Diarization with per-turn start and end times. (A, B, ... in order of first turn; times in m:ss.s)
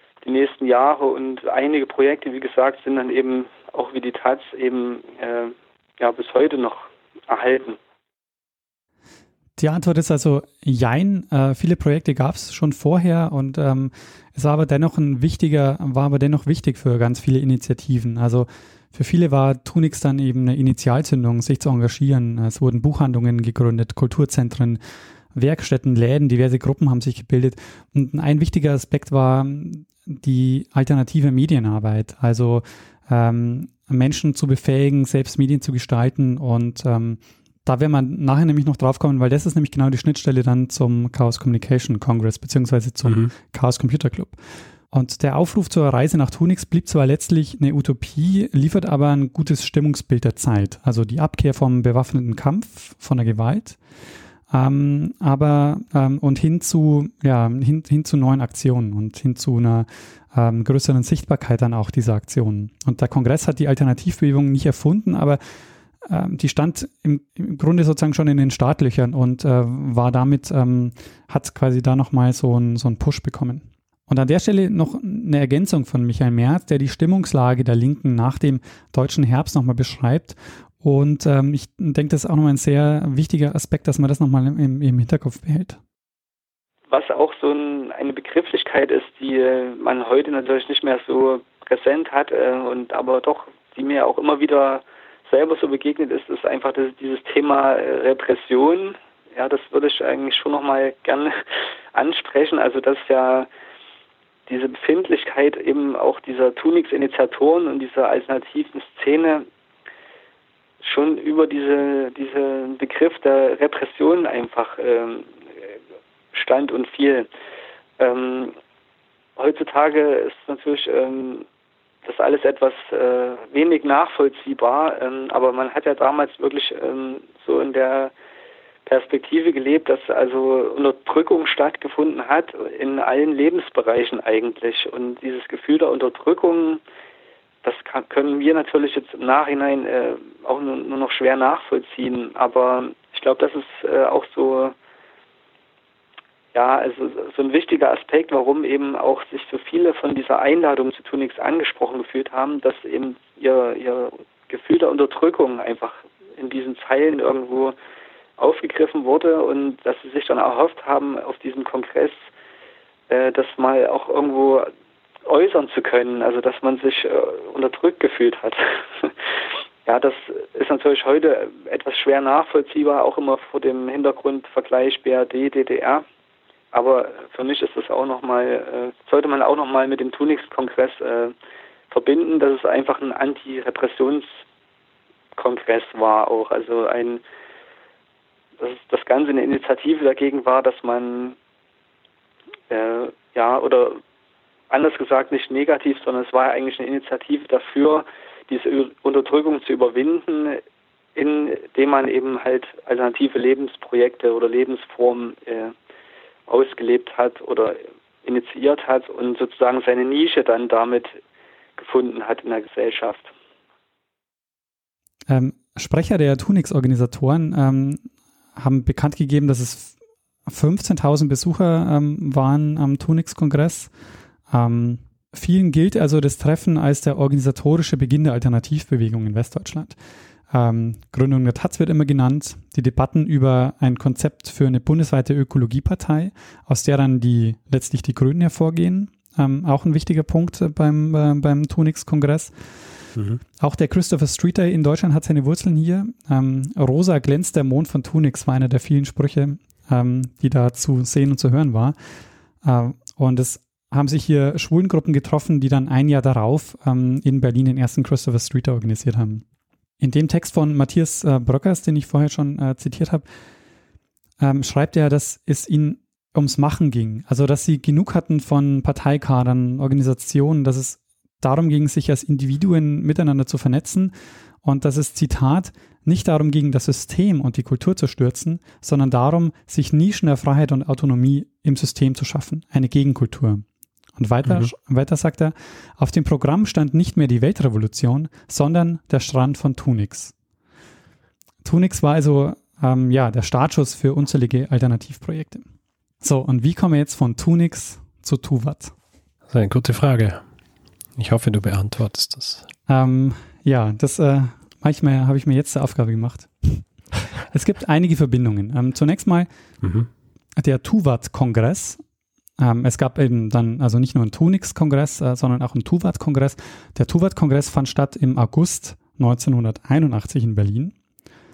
0:00.2-0:07.8 A
0:09.6-0:24.8 B
0:25.3-0:44.4 B
0:43.0-0:43.3 C
0:44.9-0:53.8 B
0:54.5-1:05.4 B
1:06.0-1:25.8 B
1:26.9-1:41.4 A
1:42.0-1:43.5 A
1:44.5-1:49.5 A
1:50.8-1:55.3 A
1:56.3-1:57.3 A
1:58.0-1:58.6 A
1:59.4-2:01.4 A
2:02.0-2:08.1 A
2:08.9-2:16.8 A
2:17.6-2:24.8 A
2:26.5-2:37.8 A
2:38.4-2:42.2 A
2:43.1-2:44.7 A
2:45.3-2:49.1 A
2:49.9-2:56.0 A
2:56.7-3:01.3 A
3:01.9-3:04.4 A
3:05.4-3:07.2 A
3:08.6-3:11.4 A
3:12.7-3:14.0 A
3:14.7-3:20.6 A
3:21.2-3:25.7 A
3:26.5-3:31.2 A
3:31.8-3:33.3 A
3:35.3-3:38.0 B
3:38.6-3:40.0 B
3:40.5-3:43.9 B
3:44.5-3:50.0 B
3:50.5-4:02.5 B
4:03.6-4:12.0 B
4:12.6-4:19.4 B
4:20.0-4:23.2 B
4:24.4-4:43.6 B
4:44.2-4:50.3 B
4:44.4-4:44.7 C
4:51.6-4:55.6 B
4:56.2-4:58.9 B
4:59.5-5:00.4 C
5:01.2-5:02.7 C
5:02.9-5:06.8 B
5:07.5-5:09.5 B
5:09.8-5:10.1 C
5:10.6-5:12.0 B
5:12.6-5:20.9 B